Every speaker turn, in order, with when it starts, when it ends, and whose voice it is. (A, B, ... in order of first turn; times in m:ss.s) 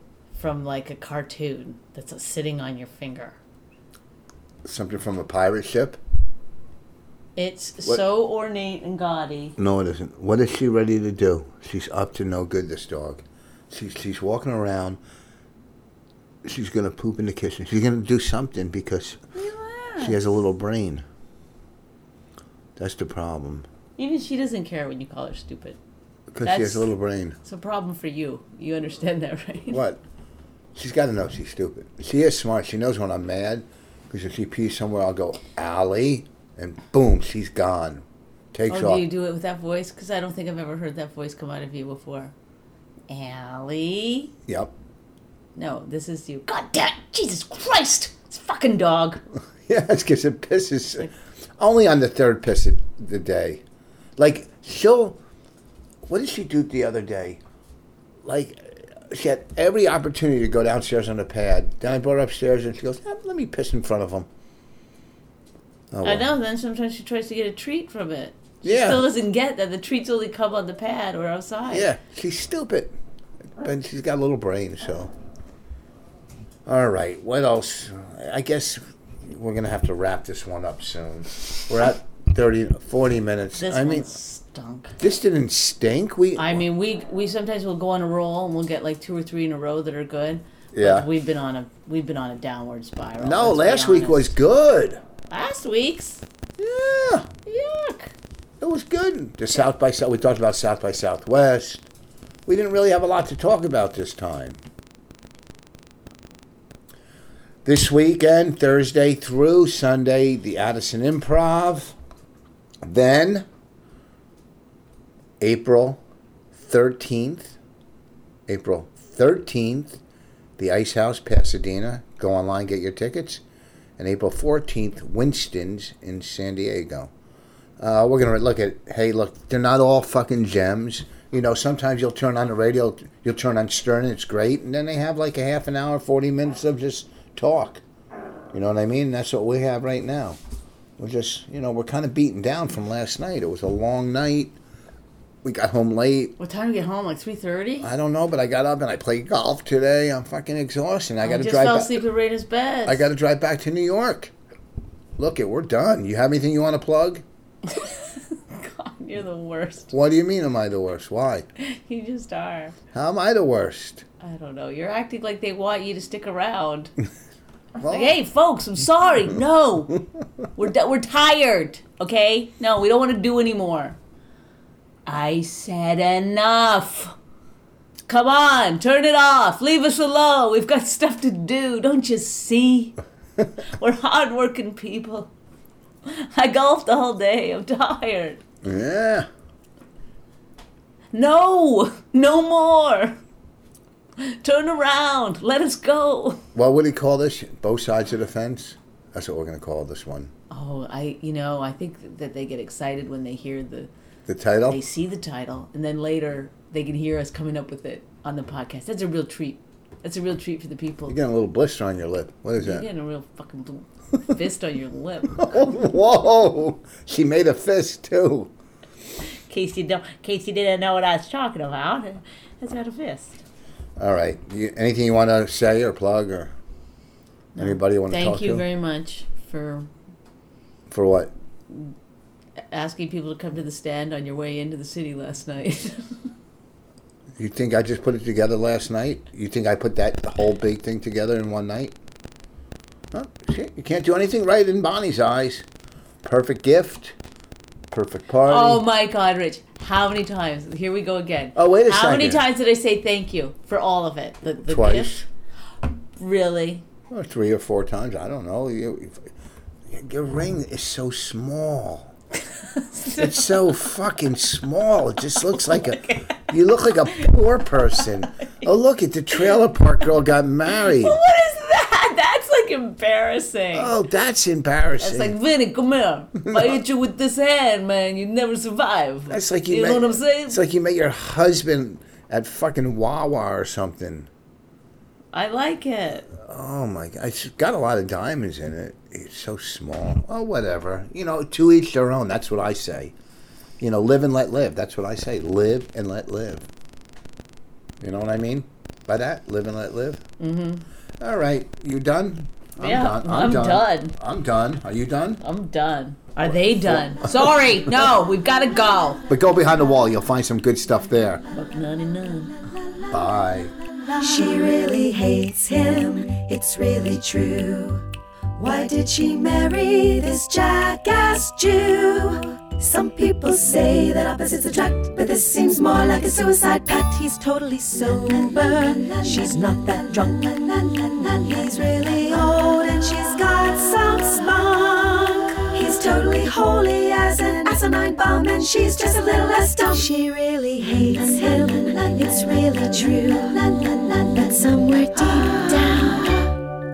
0:00.3-0:03.4 A
0:04.6-0:06.0 B
0:07.4-0:09.6 A
0:09.6-0:15.0 B
0:16.4-0:19.2 B
0:19.3-0:20.2 A
0:20.0-0:21.0 B
0:22.8-0:23.7 B
0:24.0-0:25.8 A
0:26.3-0:27.4 B
0:26.4-0:29.8 A
0:29.7-0:30.0 B
0:30.8-0:39.1 B
0:38.7-0:42.3 A
0:43.1-0:44.3 A
0:44.5-0:44.7 B
0:45.6-0:49.2 A
0:49.7-0:53.6 B
0:54.2-0:55.2 B
0:56.1-0:57.4 B
0:58.2-1:04.3 B
1:05.9-1:06.3 B
1:06.0-1:11.9 A
1:08.6-1:09.0 B
1:11.7-1:12.9 B
1:13.6-1:15.1 B
1:16.7-1:24.1 B
1:23.6-1:25.0 A
1:25.0-1:26.6 B
1:26.4-1:34.3 A
1:30.7-1:31.1 B
1:33.2-1:35.0 B
1:35.3-1:36.2 A
1:36.6-1:37.3 B
1:37.5-1:38.1 A
1:38.6-1:41.8 B
1:42.5-1:44.6 B
1:47.6-1:52.0 B
1:52.8-1:53.5 B
1:55.4-1:56.0 B
1:56.5-1:57.6 B
1:58.5-2:00.0 B
2:00.6-2:03.4 B
2:04.0-2:07.1 B
2:07.8-2:17.8 B
2:18.5-2:20.4 B
2:21.0-2:24.6 B
2:25.4-2:26.4 B
2:26.4-2:27.9 A
2:27.8-2:32.0 B
2:31.2-2:33.1 A
2:32.9-2:34.3 B
2:35.2-2:37.2 B
2:37.7-2:39.9 A
2:39.9-2:41.5 B
2:41.6-2:42.8 A
2:42.9-2:44.0 B
2:44.2-2:46.9 A
2:47.8-2:48.2 B
2:47.8-2:50.0 A
2:50.6-2:54.0 A
2:55.1-2:57.2 A
2:58.1-3:03.0 A
3:03.7-3:05.3 A
3:06.0-3:08.4 A
3:08.6-3:09.3 B
3:11.1-3:13.2 A
3:14.2-3:16.4 A
3:16.6-3:20.3 B
3:20.5-3:23.9 A
3:24.3-3:24.8 B
3:24.7-3:31.2 A
3:31.1-3:32.9 B
3:32.6-3:35.5 A
3:35.3-3:38.5 B
3:39.5-3:43.4 A
3:44.0-3:46.5 B
3:47.6-3:49.9 A
3:47.6-3:48.6 B
3:50.9-3:51.3 B
3:52.7-3:56.2 A
3:57.4-4:02.0 B
4:03.1-4:05.7 B
4:06.2-4:07.2 B
4:07.9-4:08.8 B
4:08.4-4:15.2 A
4:11.6-4:12.4 B
4:14.6-4:15.2 B
4:16.2-4:16.8 A
4:17.1-4:19.3 B
4:19.9-4:22.1 B
4:22.7-4:23.6 A
4:23.1-4:31.2 B
4:25.5-4:26.3 A
4:30.8-4:33.9 A
4:33.7-4:35.4 B
4:35.0-4:40.6 A
4:36.4-4:36.8 B
4:39.3-4:44.3 B
4:45.3-4:46.3 A
4:46.4-4:53.1 B
4:53.8-4:56.7 B
4:58.0-5:00.2 B
5:00.4-5:00.8 A
5:01.2-5:05.4 B
5:02.8-5:04.2 A
5:05.4-5:09.2 A
5:06.4-5:07.5 B
5:09.3-5:11.4 B
5:11.5-5:12.5 A
5:13.1-5:13.7 B
5:14.2-5:18.0 C
5:18.6-5:46.6 C